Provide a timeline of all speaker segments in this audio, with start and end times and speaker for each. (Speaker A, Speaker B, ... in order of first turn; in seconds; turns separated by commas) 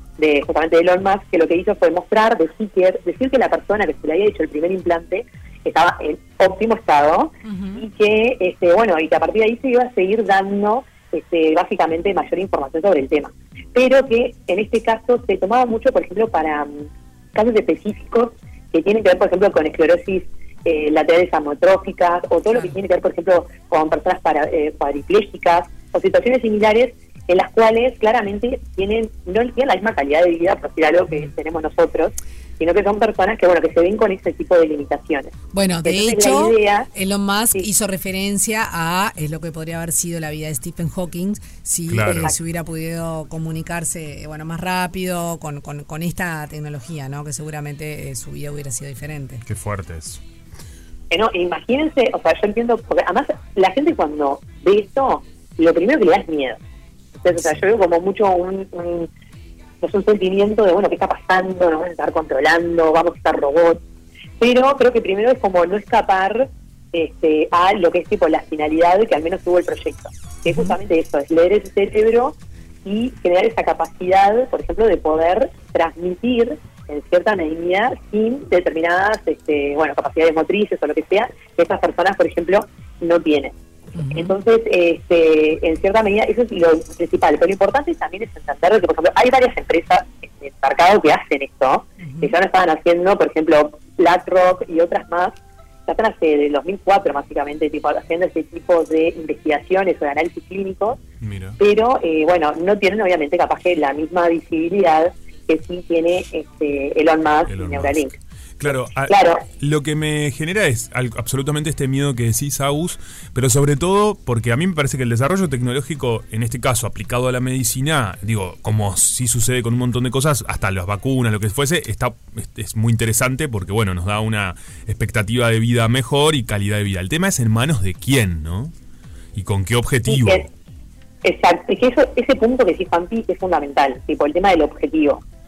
Speaker A: 0.2-36.9, Speaker B: 7.4-7.9, Speaker B: 35.5-49.4, Speaker C: 41.9-42.3, Speaker C: 49.5-50.2, Speaker A: 51.1-56.6, Speaker A: 57.2-59.1, Speaker C: 57.4-57.6, Speaker A: 59.8-63.8, Speaker A: 64.4-83.5, Speaker B: 70.5-70.8, Speaker B: 84.0-84.4, Speaker A: 84.1-95.3, Speaker B: 92.0-92.4, Speaker A: 95.9-101.0, Speaker C: 101.2-101.6, Speaker A: 101.6-108.1, Speaker C: 107.5-108.1, Speaker C: 108.6-128.7, Speaker A: 109.1-109.5, Speaker C: 129.3-130.5, Speaker A: 130.1-130.4, Speaker A: 131.2-135.2